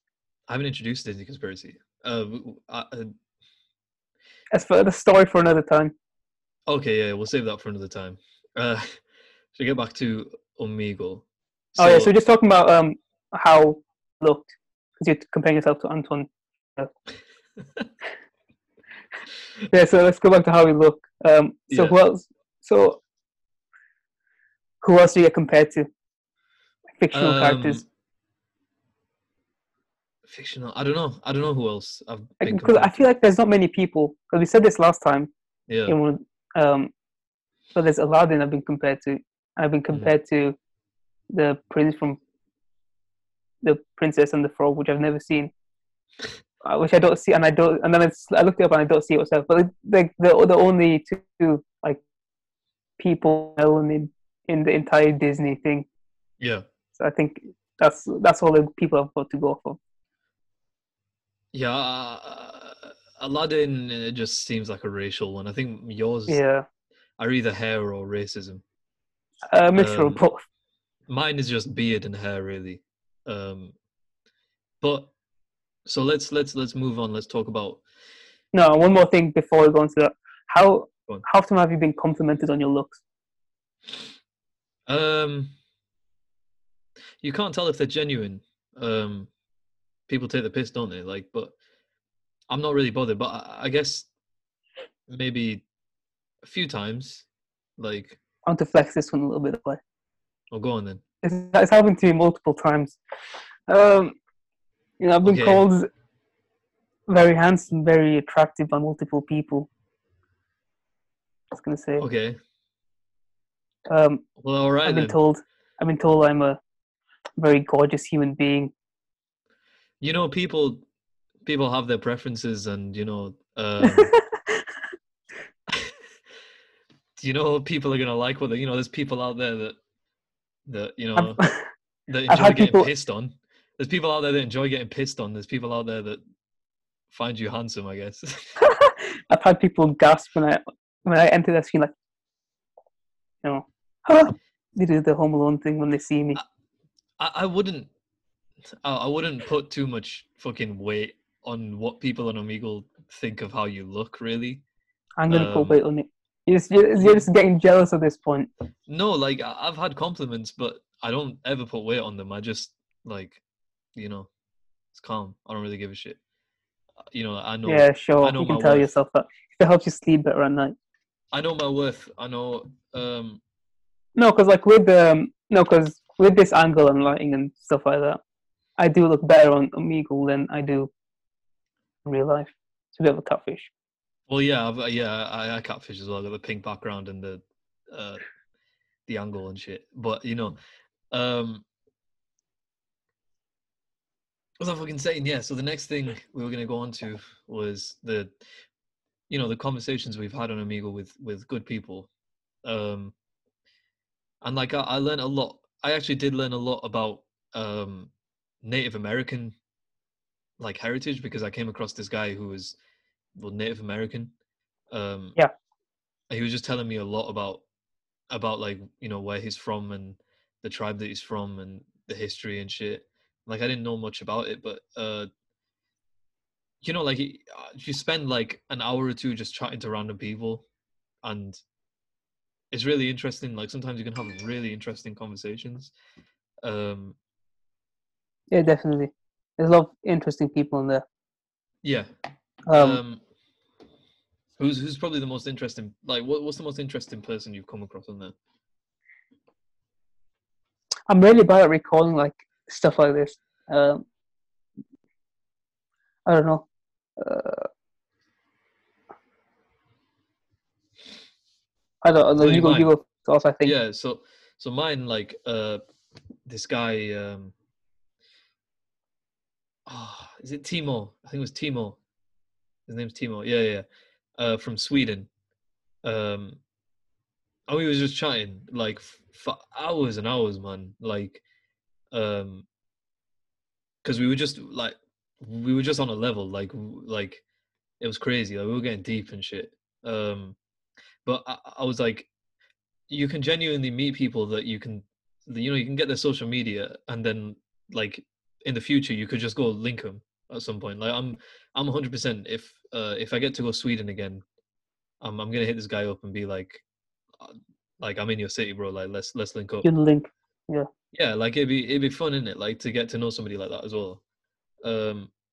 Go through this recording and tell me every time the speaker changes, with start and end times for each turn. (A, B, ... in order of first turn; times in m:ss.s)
0:00.5-0:03.1 A
0:04.5-0:05.9 B
0:06.7-0:09.0 A
0:09.5-0:12.1 A
0:11.8-0:16.9 B
0:19.7-0:23.0 B
0:21.7-0:22.0 A
0:24.8-0:25.9 B
0:27.0-0:27.8 B
0:27.1-0:27.8 A
0:30.2-0:33.0 A
0:32.4-0:35.3 B
0:35.7-0:36.0 A
0:35.8-0:36.9 B
0:37.7-0:40.6 B
0:41.3-0:42.2 B
0:43.6-0:45.5 B
0:46.6-0:52.0 B
0:53.0-0:55.9 B
0:56.4-0:56.6 A
0:57.0-0:59.8 B
1:01.5-1:06.4 A
1:06.3-1:06.6 B
1:07.2-1:08.6 A
1:09.5-1:10.4 B
1:09.7-1:10.2 A
1:11.1-1:13.7 A
1:14.8-1:15.1 A
1:15.8-1:17.8 A
1:18.5-1:23.0 B
1:24.9-1:25.5 A
1:27.2-1:29.3 A
1:30.1-1:31.5 A
1:32.5-1:34.1 A
1:35.1-1:35.6 A
1:36.4-1:37.2 A
1:37.8-1:38.2 A
1:38.4-1:39.8 B
1:40.5-1:41.0 A
1:41.2-1:43.0 B
1:43.7-1:44.2 B
1:45.0-1:45.9 B
1:45.2-1:45.7 A
1:47.1-1:49.7 B
1:51.5-1:52.0 B
1:52.0-1:52.4 A
1:53.9-1:54.2 B
1:54.4-1:55.2 A
1:54.8-1:56.6 B
1:57.4-1:58.7 B
2:00.0-2:00.8 A
2:01.4-2:04.1 A
2:03.8-2:04.6 B
2:05.7-2:06.0 A
2:07.2-2:09.8 A
2:10.7-2:11.4 A
2:11.2-2:11.7 B
2:12.1-2:16.2 A
2:12.3-2:12.9 B
2:17.1-2:18.5 A
2:18.6-2:21.9 B
2:23.4-2:26.4 B
2:27.2-2:27.9 A
2:28.8-2:34.6 A
2:35.2-2:38.5 B
2:35.3-2:35.8 A
2:37.0-2:37.3 A
2:38.9-2:43.4 A
2:43.9-2:44.3 A
2:44.9-2:46.2 A
2:47.1-2:48.9 A
2:47.6-2:50.7 B
2:51.3-2:53.4 A
2:54.2-2:58.2 B
2:58.8-3:00.9 B
3:02.0-3:03.7 B
3:04.3-3:08.2 A
3:09.1-3:10.6 A
3:11.1-3:11.6 A
3:14.6-3:18.3 A
3:19.3-3:22.1 A
3:22.6-3:23.1 A
3:24.4-3:28.1 A
3:28.6-3:29.5 A
3:30.6-3:32.8 A
3:33.4-3:34.3 A
3:34.9-3:35.4 A
3:36.3-3:37.6 A
3:38.3-3:45.3 A
3:46.8-3:50.6 A
3:51.2-3:51.6 A
3:52.7-3:55.9 A
3:56.6-3:57.2 A
3:58.5-4:01.0 B
4:01.8-4:02.1 A
4:02.7-4:03.0 B
4:02.7-4:03.2 A
4:04.6-4:08.3 A
4:11.1-4:14.0 B
4:16.2-4:16.6 B
4:17.2-4:17.7 B
4:22.0-4:23.7 B
4:22.4-4:22.9 A
4:23.6-4:25.8 A
4:26.4-4:27.5 A
4:29.8-4:32.0 A
4:32.9-4:33.8 A
4:34.4-4:35.3 A
4:36.0-4:36.6 A
4:37.7-4:41.4 A
4:42.1-4:42.6 A
4:44.0-4:47.4 A
4:48.0-4:50.6 A
4:51.2-4:52.3 A
4:53.1-5:04.4 A
5:05.2-5:06.8 A
5:07.4-5:09.9 A
5:09.8-5:10.9 B
5:11.1-5:14.2 A
5:14.8-5:15.3 A